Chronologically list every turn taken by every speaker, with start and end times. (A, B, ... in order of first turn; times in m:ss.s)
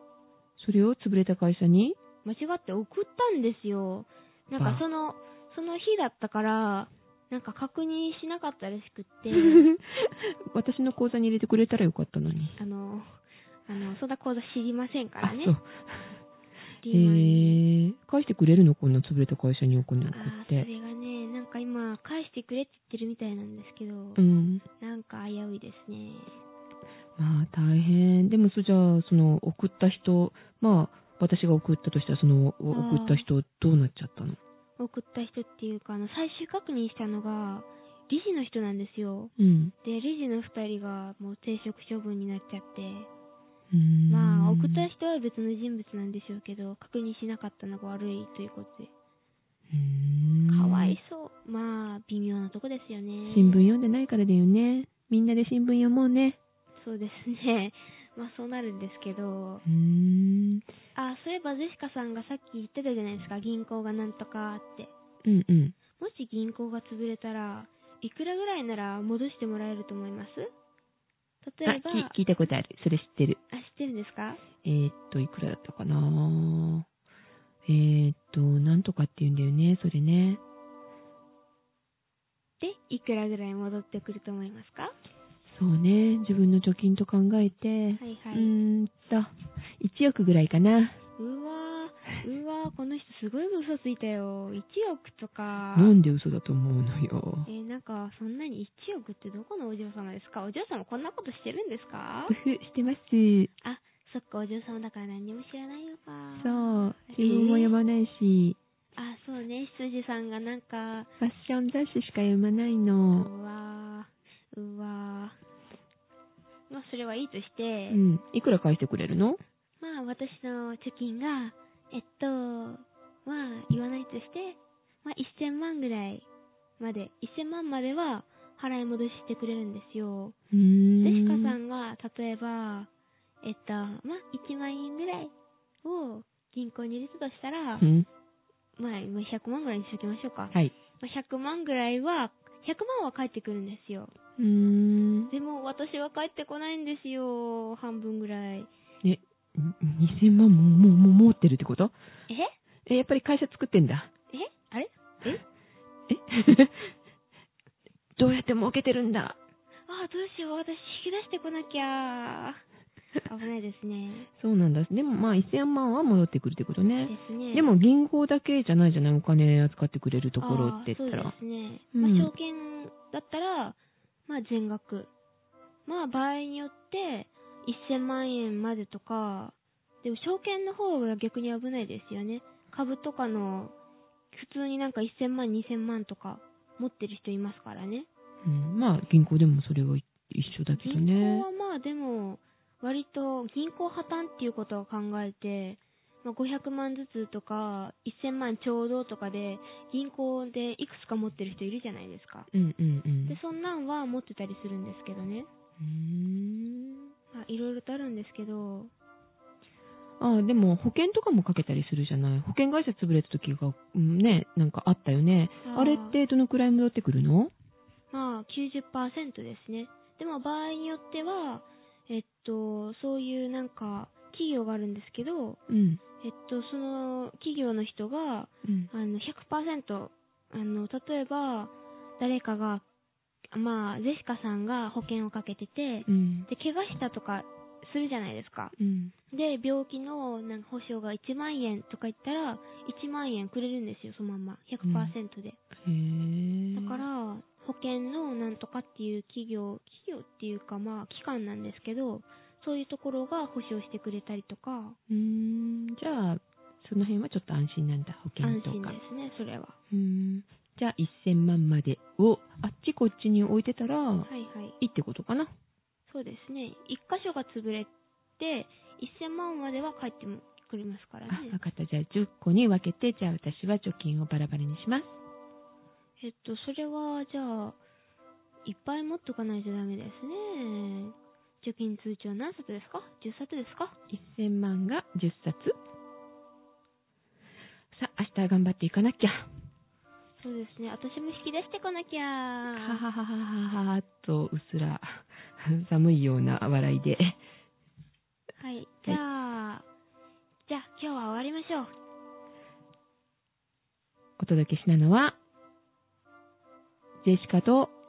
0:00.6-0:02.0 A
0:02.2-0:09.7 B
0:04.6-0:04.8 A
0:09.3-0:12.6 A
0:12.6-0:15.6 B
0:15.2-0:16.2 A
0:16.8-0:17.6 B
0:16.9-0:20.7 A
0:20.1-0:24.2 B
0:24.2-0:24.6 A
0:24.8-0:26.4 B
0:27.2-0:34.4 A
0:32.7-0:33.3 B
0:34.8-0:39.3 B
0:39.4-0:39.7 A
0:39.8-0:43.1 B
0:43.7-0:44.9 A
0:44.1-0:48.9 B
0:49.7-0:51.0 A
0:50.5-0:53.6 B
0:53.3-0:56.4 A
0:56.8-0:59.6 B
0:59.6-1:00.7 A
1:01.0-1:04.9 B
1:05.2-1:05.8 A
1:06.0-1:10.5 B
1:11.4-1:12.2 B
1:11.6-1:13.4 A
1:13.5-1:14.4 B
1:14.6-1:16.9 A
1:17.7-1:20.4 A
1:22.6-1:24.9 B
1:25.5-1:31.0 A
1:28.0-1:28.5 B
1:31.2-1:35.9 B
1:35.7-1:37.5 A
1:37.5-1:42.4 B
1:42.3-1:43.5 A
1:43.6-1:47.7 B
1:46.4-1:48.6 A
1:49.0-1:51.1 B
1:51.2-1:53.3 A
1:53.1-1:55.4 B
1:56.7-1:58.0 B
1:57.9-1:59.4 A
1:59.8-2:06.3 B
2:06.8-2:10.4 B
2:10.5-2:11.6 A
2:11.0-2:12.9 B
2:13.4-2:15.3 B
2:15.8-2:17.8 B
2:17.8-2:18.1 A
2:18.8-2:24.1 B
2:24.4-2:25.3 A
2:25.3-2:28.7 B
2:29.0-2:31.9 A
2:32.9-2:34.1 A
2:34.3-2:35.4 B
2:36.1-2:36.9 A
2:38.2-2:39.4 A
2:39.9-2:42.6 B
2:43.2-2:44.3 B
2:44.4-2:51.3 A
2:47.1-2:47.7 B
2:50.4-2:55.1 B
2:52.0-2:52.3 A
2:55.9-3:03.7 B
3:04.3-3:08.1 B
3:08.4-3:11.5 A
3:10.7-3:22.5 B
3:22.5-3:23.4 A
3:23.3-3:25.5 B
3:25.8-3:27.1 A
3:27.3-3:28.9 B
3:30.2-3:37.5 A
3:35.6-3:36.2 B
3:38.1-3:45.6 B
3:45.7-3:46.0 A
3:46.2-3:52.8 B
3:48.6-3:48.9 A
3:53.5-3:58.7 B
3:56.1-3:56.5 A
3:58.8-3:59.1 A
3:59.3-4:05.6 B
4:04.8-4:05.2 A
4:05.8-4:07.0 A
4:06.7-4:15.0 B
4:15.1-4:19.0 A
4:18.4-4:19.8 B
4:19.9-4:24.3 A
4:24.3-4:24.8 B
4:24.8-4:25.5 A
4:26.1-4:31.6 B
4:31.3-4:35.2 A
4:36.2-4:37.8 B
4:38.6-4:44.0 B
4:44.1-4:45.8 A
4:47.9-4:49.5 A
4:50.4-4:53.0 B
4:52.7-4:57.4 A
4:58.6-4:59.8 B
5:00.7-5:01.9 B
5:04.4-5:05.4 A
5:07.2-5:07.9 A